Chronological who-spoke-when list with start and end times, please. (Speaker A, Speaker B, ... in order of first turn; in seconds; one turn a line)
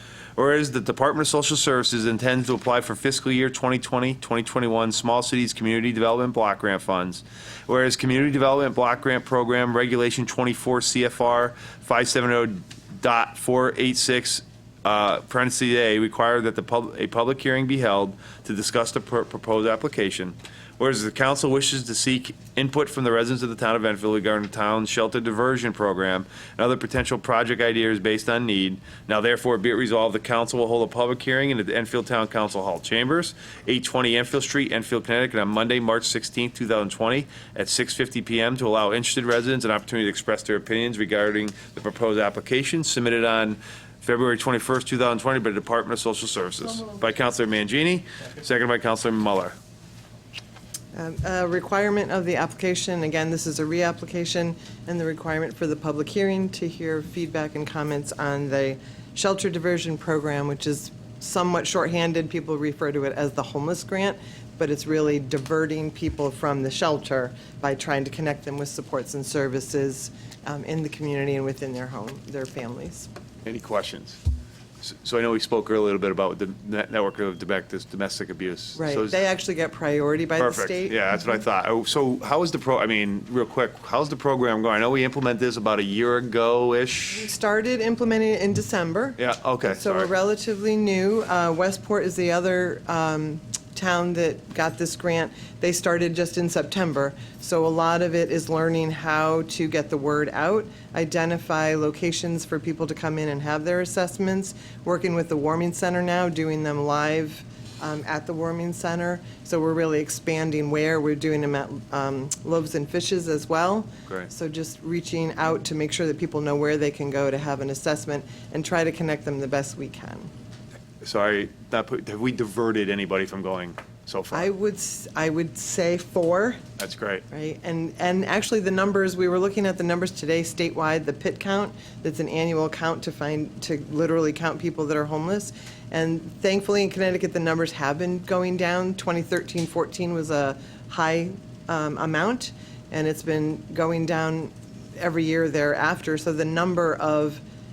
Speaker A: 0.4-49.5
Speaker B: 50.9-73.1
Speaker A: 73.5-74.2
Speaker A: 74.8-79.2
Speaker B: 78.8-81.1
Speaker A: 80.4-87.3
Speaker B: 87.2-120.3
Speaker A: 89.2-90.1
Speaker A: 121.0-124.5
Speaker B: 124.3-126.6
Speaker A: 126.8-127.2
Speaker B: 127.3-147.4